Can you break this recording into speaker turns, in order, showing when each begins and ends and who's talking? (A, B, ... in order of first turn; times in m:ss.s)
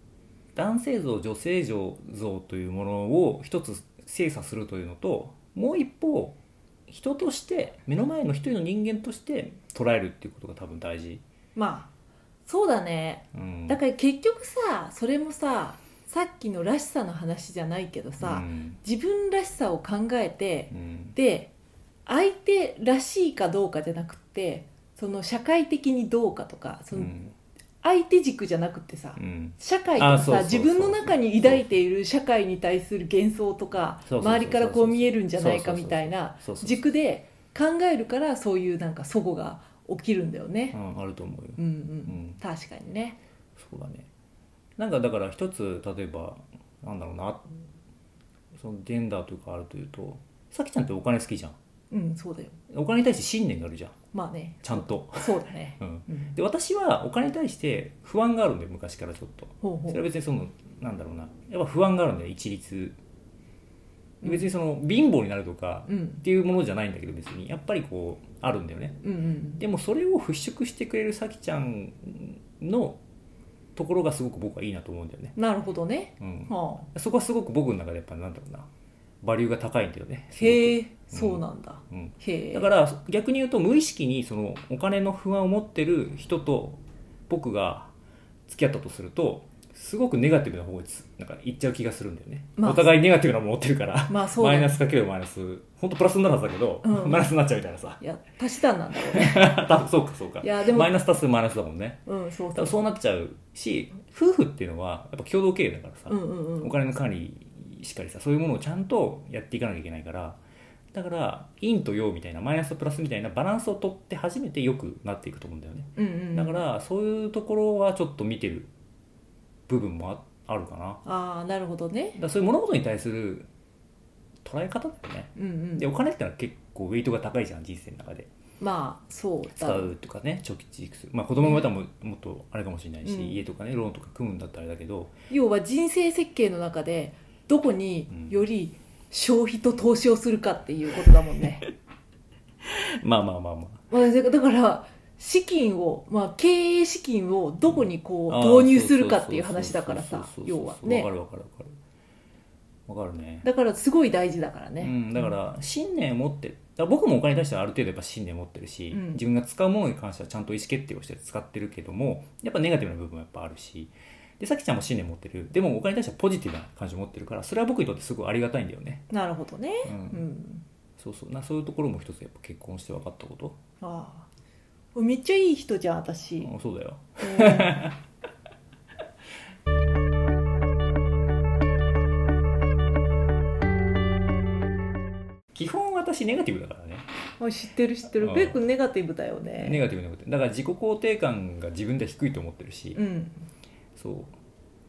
0:00.6-0:11.2 A
0:11.6-0:11.9 B
0:12.5-0:21.5 B
0:13.3-0:13.8 A
0:18.2-0:18.8 A
0:20.7-0:21.2 A
0:22.1-0:27.1 B
0:26.9-0:27.4 A
0:27.8-0:40.8 B
0:29.2-0:31.7 A
0:34.1-0:36.8 A
0:40.7-0:42.4 A
0:41.6-0:43.2 B
0:43.6-0:44.1 A
0:44.8-0:47.5 A
0:48.6-0:51.6 A
0:51.9-0:52.6 B
0:52.7-0:54.0 A
0:54.1-0:56.3 B
0:54.6-1:03.0 A
0:59.6-1:00.0 B
1:04.2-1:09.0 A
1:05.9-1:06.2 B
1:09.0-1:09.6 B
1:09.6-1:13.0 A
1:13.8-1:15.4 A
1:15.4-1:16.9 B
1:16.2-1:18.7 A
1:19.2-1:27.9 A
1:20.4-1:22.7 B
1:28.5-1:38.0 A
1:32.6-1:32.9 B
1:34.1-1:34.8 B
1:36.8-1:37.3 B
1:38.0-1:39.7 B
1:38.9-1:42.0 A
1:40.4-1:41.0 B
1:42.1-1:42.8 B
1:42.5-1:50.4 A
1:46.1-1:46.7 B
1:50.9-1:58.7 A
1:56.0-1:56.6 B
1:59.7-2:01.0 A
2:01.0-2:02.2 B
2:02.2-2:03.5 A
2:04.4-2:08.3 A
2:05.4-2:05.9 B
2:08.6-2:09.9 B
2:09.6-2:15.1 A
2:11.4-2:11.7 B
2:13.0-2:13.4 B
2:15.3-2:21.7 B
2:18.1-2:18.4 A
2:23.0-2:23.8 A
2:23.9-2:31.1 B
2:27.7-2:31.7 A
2:32.9-2:33.5 A
2:33.4-2:35.3 B
2:34.8-2:49.1 A
2:38.9-2:39.2 B
2:49.1-2:50.6 B
2:49.8-2:50.2 A
2:51.0-2:53.6 A
2:53.8-2:54.3 B
2:54.9-2:56.5 B
2:56.4-2:58.0 A
2:57.2-2:57.8 B
3:05.5-3:07.1 A
3:07.4-3:09.8 B
3:08.2-3:08.6 A
3:09.6-3:13.0 A
3:13.0-3:13.4 B
3:14.0-3:14.4 A